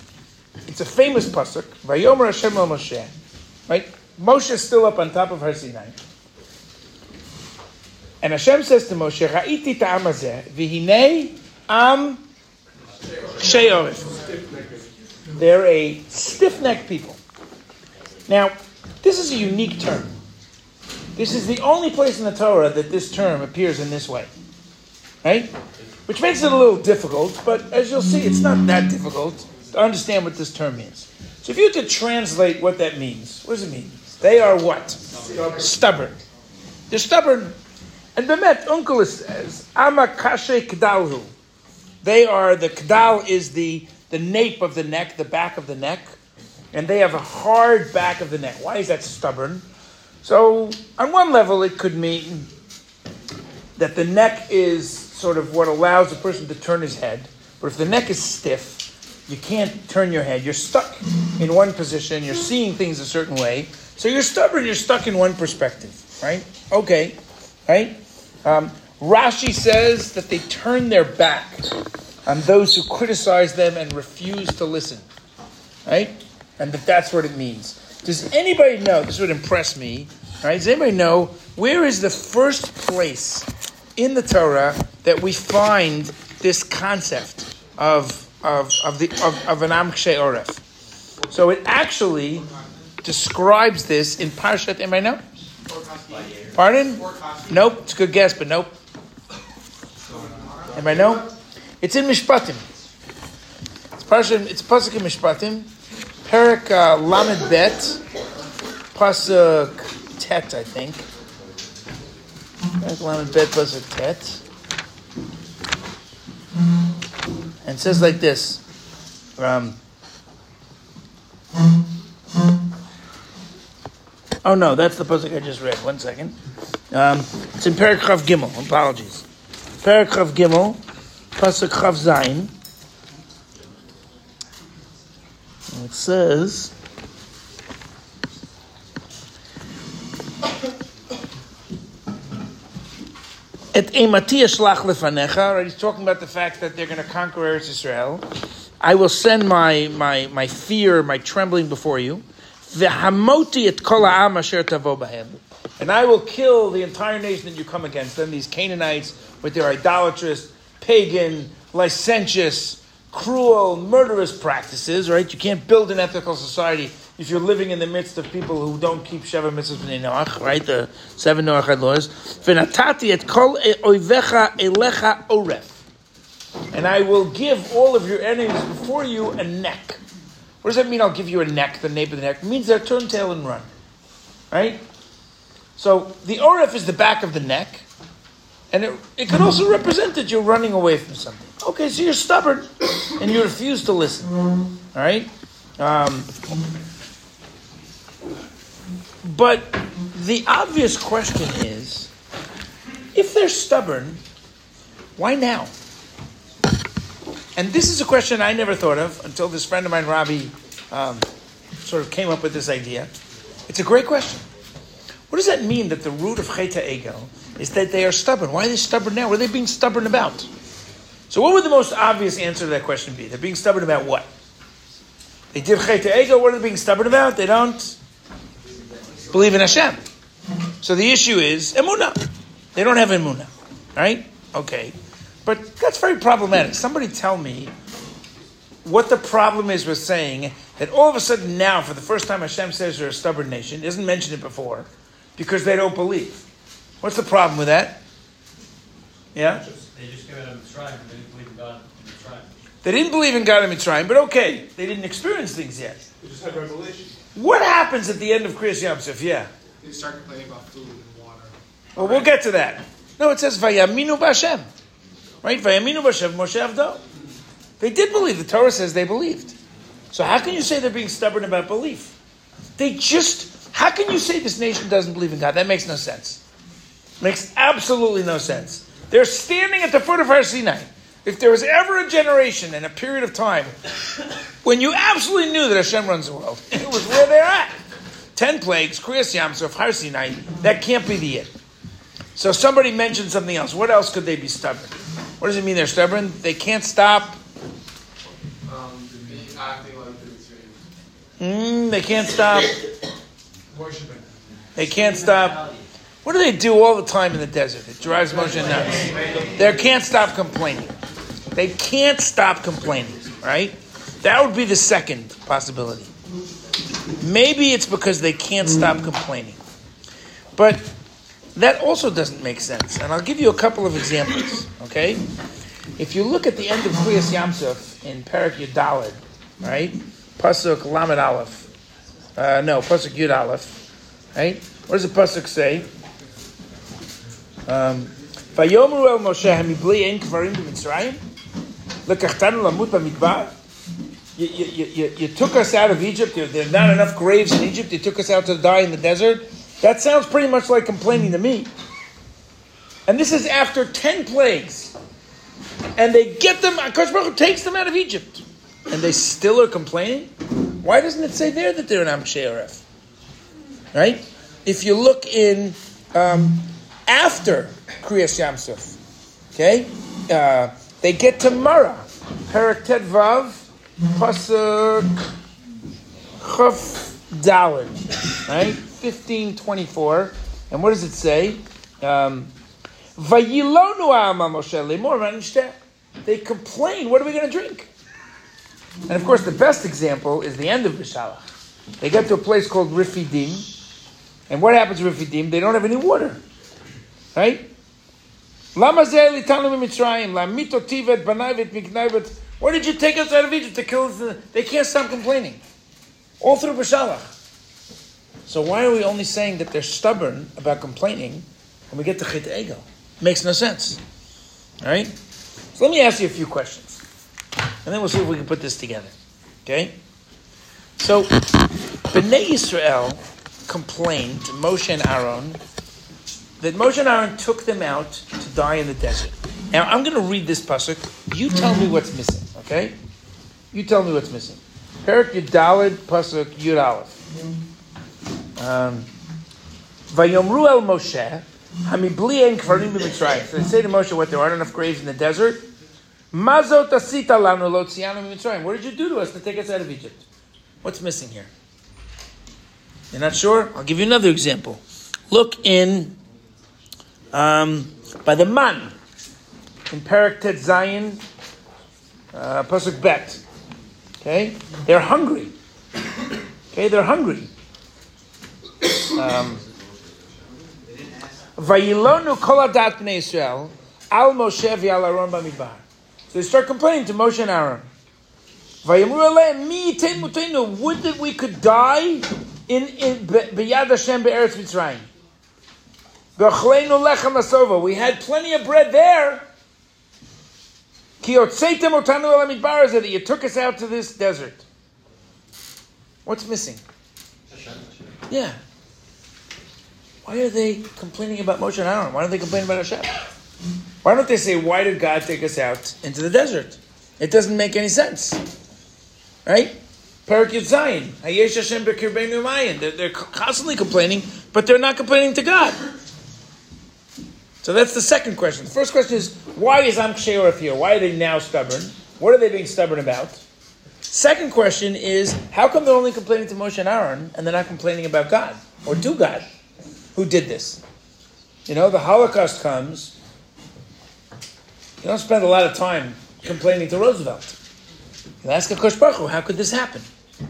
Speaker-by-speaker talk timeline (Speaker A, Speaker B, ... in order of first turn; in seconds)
Speaker A: 0.7-3.1, 3.7-6.0, 8.2-12.2, 13.4-14.2, 15.3-17.2, 18.3-20.1, 21.1-24.3, 25.2-25.5, 26.1-36.2, 36.9-37.5, 38.1-41.3, 42.0-46.1, 46.7-49.6, 50.2-52.5, 53.8-67.2, 67.7-71.7, 72.2-75.0, 75.8-90.6, 91.3-92.5, 93.0-95.2, 96.5-98.7, 100.7-101.3, 101.8-102.6, 104.0-105.7, 106.3-108.0, 108.9-111.0, 112.8-114.4, 117.6-118.6, 119.4-119.8, 124.4-126.3, 126.9-129.2, 129.8-130.8, 131.3-132.5, 135.7-136.7, 143.7-148.2, 148.8-175.8, 176.7-180.0, 180.6-183.7, 184.5-184.8, 185.8-187.8, 188.7-194.3, 194.9-196.3, 199.2-202.1, 203.1-204.2, 205.2-205.7, 207.6-211.2, 211.8-213.1, 213.7-214.4, 215.3-220.5, 221.3-224.3, 225.5-228.0, 229.3-230.0, 230.8-237.7, 238.8-246.4, 247.0-248.0, 249.3-249.6, 252.8-256.0, 257.4-259.5, 261.9-264.7, 265.4-267.0, 267.8-269.5, 270.1-272.1, 272.8-276.4, 277.2-283.7, 284.6-287.8, 288.3-291.5, 292.4-297.4, 301.4-302.8, 304.8-305.7, 306.2-311.0, 311.5-316.1, 317.2-319.6, 320.6-320.9, 321.5-325.2, 326.0-331.7, 332.4-333.8, 334.3-335.9, 337.7-341.2, 342.1-343.5, 344.4-351.7, 353.1-354.9, 356.0-362.8, 363.9-369.0, 369.5-375.3, 376.4-382.5, 383.1-387.9, 389.1-391.4, 392.0-393.6, 394.5-396.4, 397.3-397.7, 398.7-405.6, 406.4-407.3, 408.4-414.0, 414.8-415.1, 415.7-417.0, 417.8-419.1, 419.6-419.9, 421.0-421.6, 422.1-425.6, 426.6-432.9, 433.7-437.2, 438.6-439.1, 440.1-445.7, 446.3-450.2, 450.8-451.5, 453.1-456.2, 457.3-458.9, 459.9-461.2, 462.3-463.4, 464.2-465.5, 466.7-467.5, 469.1-469.6, 471.6-477.8, 478.8-485.1, 486.4-489.4, 491.2-494.6, 496.2-496.8, 498.3-498.6, 500.2-503.2, 504.0-508.4, 509.4-515.8, 517.6-523.4, 524.1-529.5, 530.1-530.8, 531.7-533.1, 535.0-537.6, 538.4-540.1
Speaker B: 14.1-14.8, 35.3-35.5, 95.7-96.3, 100.1-100.7, 256.2-257.2, 259.8-261.5, 298.6-300.8, 303.7-304.3, 309.0-309.4
Speaker C: 249.9-252.5, 497.5-498.2